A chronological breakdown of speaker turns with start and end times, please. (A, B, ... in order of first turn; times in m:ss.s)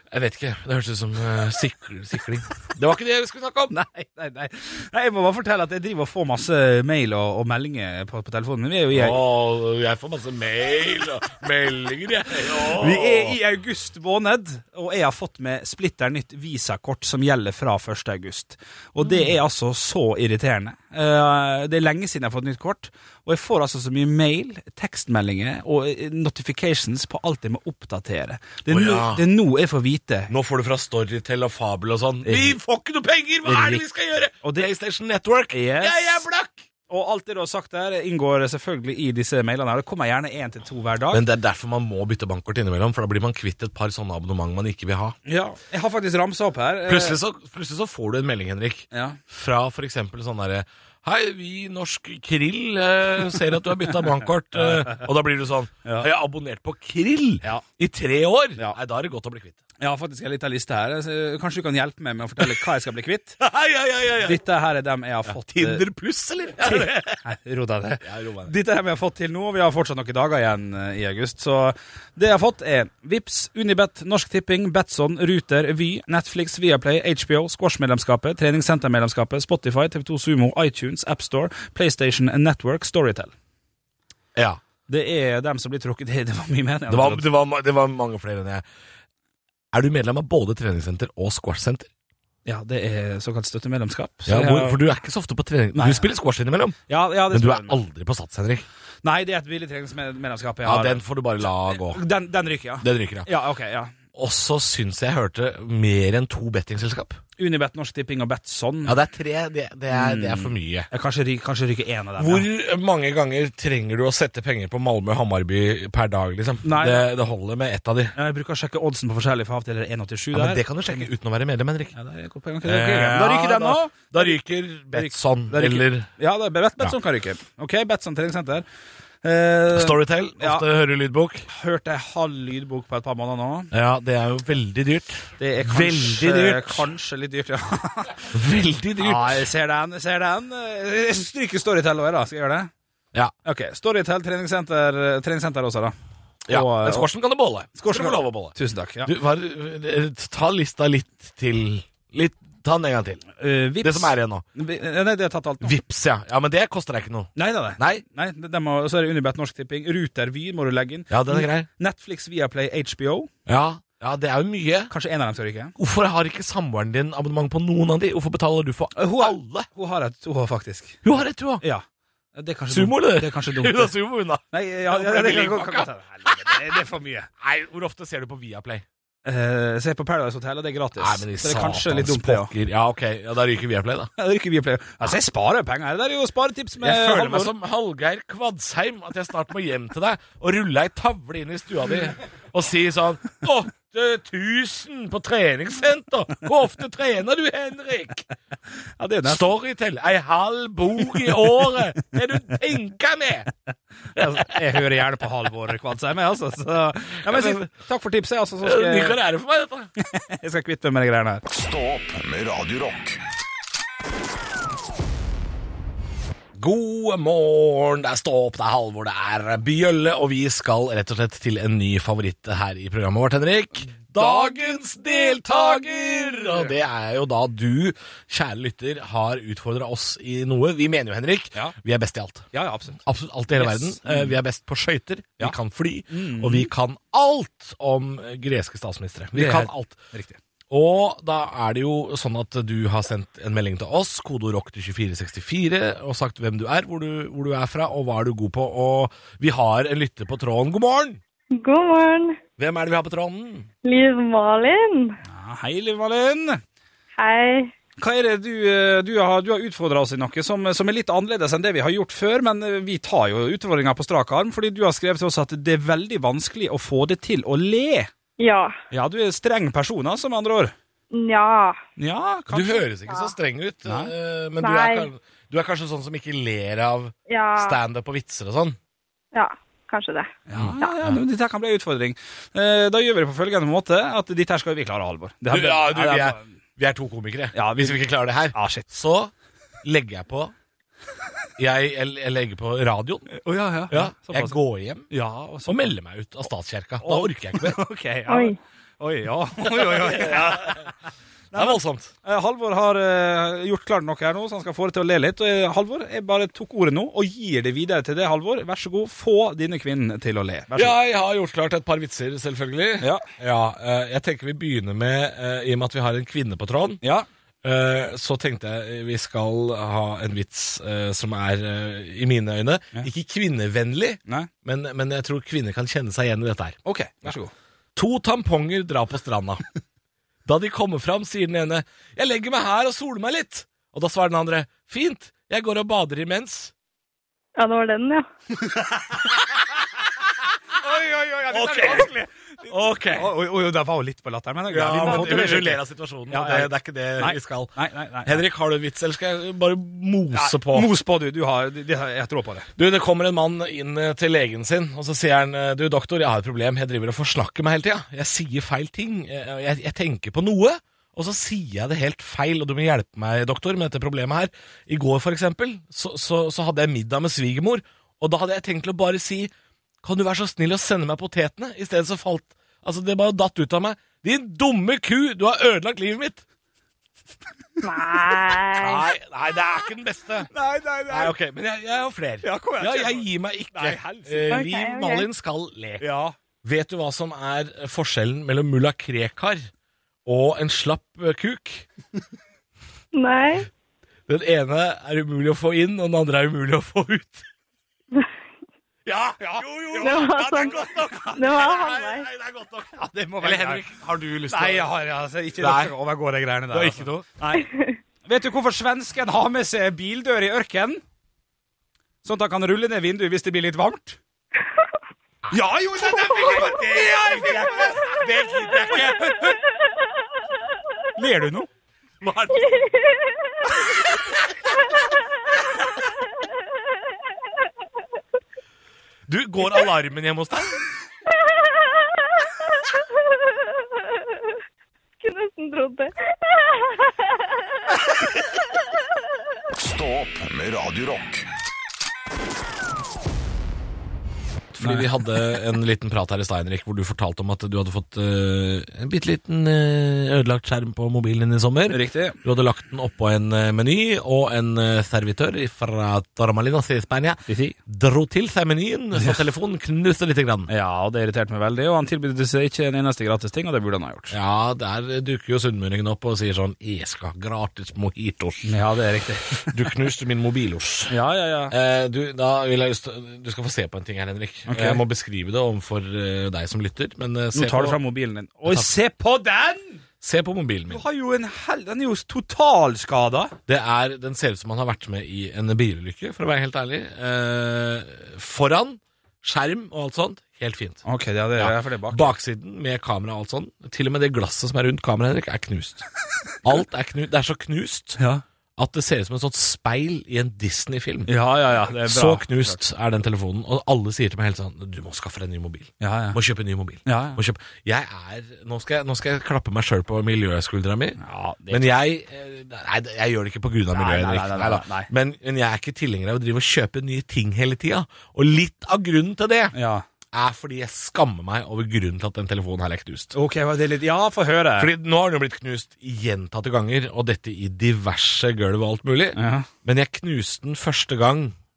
0:00.1-0:03.7 A
0:03.7-0:09.2 B
0:08.9-0:13.4 A
0:12.5-0:30.3 B
0:19.0-0:19.3 A
0:28.7-0:29.2 A
0:30.3-0:36.6 A
0:32.2-0:32.6 B
0:33.4-0:33.8 B
0:34.4-0:34.7 B
0:35.5-0:36.2 B
0:36.9-0:41.2 B
0:41.1-0:45.2 A
0:45.3-0:47.2 B
0:46.9-0:59.6 A
0:48.9-0:49.2 B
0:54.6-0:55.1 B
0:59.8-1:03.4 B
1:03.4-1:04.4 A
1:04.2-1:05.8 B
1:05.3-1:07.2 A
1:06.6-1:23.3 B
1:08.0-1:08.5 A
1:24.4-1:24.6 A
1:24.9-1:27.3 B
1:26.9-1:28.6 A
1:29.7-1:31.9 A
1:32.5-1:34.8 B
1:34.3-1:38.7 A
1:35.7-1:36.1 B
1:36.9-1:37.8 B
1:39.0-1:41.0 B
1:40.6-1:42.0 A
1:41.7-1:43.9 B
1:42.8-1:43.3 A
1:44.1-1:47.2 A
1:47.4-1:49.0 B
1:48.8-1:50.9 A
1:49.9-1:52.5 B
1:52.2-1:58.2 A
1:56.6-1:57.1 B
1:58.2-2:01.1 B
2:00.3-2:02.0 A
2:02.0-2:04.4 B
2:02.6-2:06.1 A
2:04.9-2:08.6 B
2:09.2-2:10.7 B
2:09.7-2:11.5 A
2:11.5-2:13.7 B
2:13.7-2:16.9 A
2:15.4-2:18.4 B
2:18.3-2:19.5 A
2:19.0-2:22.7 B
2:23.4-2:26.0 B
2:26.5-2:33.3 A
2:26.5-2:27.1 B
2:27.8-2:29.1 B
2:33.4-2:35.8 B
2:33.8-2:34.4 A
2:35.6-2:38.0 A
2:37.4-2:43.3 B
2:41.1-2:41.7 A
2:43.5-2:44.9 A
2:44.9-2:45.7 B
2:45.8-2:49.7 A
2:49.0-2:51.0 B
2:51.0-2:51.6 A
2:52.4-2:53.9 B
2:52.7-2:56.6 A
2:54.5-2:57.3 B
2:57.4-2:58.8 A
2:59.2-3:02.5 B
3:01.0-3:04.1 A
3:04.2-3:07.5 B
3:06.8-3:18.3 A
3:19.0-3:19.4 B
3:19.2-3:23.5 A
3:24.1-3:29.2 B
3:24.2-3:24.8 A
3:27.2-3:27.7 A
3:28.6-3:29.9 A
3:30.0-3:31.4 B
3:31.5-3:33.2 C
3:36.6-4:00.0 A
3:44.2-3:44.6 B
3:45.7-3:46.7 B
3:52.5-3:53.0 B
3:53.6-3:54.4 B
3:56.1-3:56.7 B
3:59.3-4:00.4 B
4:00.7-4:11.2 A
4:11.5-4:12.4 D
4:12.6-4:13.7 A
4:13.8-4:15.2 D
4:15.3-4:16.6 B
4:17.2-4:17.7 D
4:18.0-4:28.1 B
4:28.4-4:28.8 D
4:28.9-4:30.7 B
4:31.1-4:31.8 D
4:32.0-4:32.8 B
4:32.5-4:38.8 A
4:33.9-4:34.1 B
4:34.6-4:35.1 D
4:37.3-4:37.8 D
4:39.3-4:41.0 D
4:40.5-4:46.4 B
4:40.6-4:41.1 A
4:45.5-4:49.3 A
4:47.5-4:48.9 B
4:49.8-4:50.5 A
4:51.6-4:53.3 A
4:53.3-4:54.6 B
4:53.9-4:55.1 A
4:55.1-4:55.9 B
4:55.7-4:57.8 A
4:57.0-5:00.9 B
4:58.3-4:58.6 D
4:59.6-5:00.9 A
5:01.5-5:11.0 B
5:01.5-5:02.1 A
5:10.8-5:17.0 A
5:13.0-5:13.3 B
5:17.0-5:17.3 B
5:17.6-5:27.4 A
5:26.8-5:27.5 B
5:28.0-5:29.6 A
5:30.4-5:36.7 A
5:37.6-5:38.2 D
5:38.6-5:39.2 B
5:40.8-5:48.4 B
5:41.5-5:43.3 A
5:44.7-5:47.7 A
5:48.2-5:50.9 A
5:50.3-5:52.7 B
5:52.8-6:09.5 A
6:10.0-6:16.4 A
6:17.8-6:19.1 D
6:18.7-6:20.5 A
6:20.5-6:21.3 B
6:21.1-6:26.1 A
6:22.4-6:24.6 B
6:24.5-6:25.3 D
6:26.0-6:26.4 B
6:26.6-6:29.7 A
6:30.3-6:31.9 A
6:33.1-6:33.7 D
6:34.3-6:37.5 A
6:39.1-6:44.9 A
6:39.4-6:41.6 B
6:40.0-6:42.3 D
6:43.0-6:43.8 B
6:44.5-6:47.7 B
6:45.6-6:46.0 A
6:46.7-6:47.3 A
6:47.7-6:48.0 D
6:48.3-6:51.0 B
6:52.2-6:54.2 B
6:55.5-6:59.5 A
6:55.5-6:59.6 B
7:01.2-7:01.7 B
7:02.2-7:02.8 A
7:02.5-7:03.7 D
7:06.4-7:07.0 D
7:09.3-7:10.8 A
7:11.3-7:14.5 D
7:15.2-7:18.0 D
7:19.7-7:21.5 C
7:24.7-7:40.7 A
7:24.8-7:25.1 B
7:31.9-7:32.4 B
7:37.5-7:37.8 B
7:40.7-7:44.4 B
7:44.3-7:48.8 A
7:48.6-7:49.8 B
7:49.6-7:51.2 A
7:51.1-7:51.7 B
7:51.7-7:58.0 A
7:54.7-7:55.0 B
7:57.5-8:00.0 B
8:00.2-8:01.0 A
8:00.9-8:03.6 B
8:03.7-8:11.0 A
8:11.1-8:12.3 B
8:11.6-8:16.1 A
8:16.6-8:18.2 A
8:18.2-8:18.4 B
8:18.8-8:39.8 A
8:21.3-8:22.8 B
8:26.0-8:26.4 B
8:27.0-8:27.4 B
8:31.2-8:32.0 B
8:33.9-8:35.1 B
8:39.7-8:40.0 B
8:40.3-8:43.4 A
8:43.3-8:44.9 B
8:44.8-8:51.6 A
8:49.4-8:49.7 B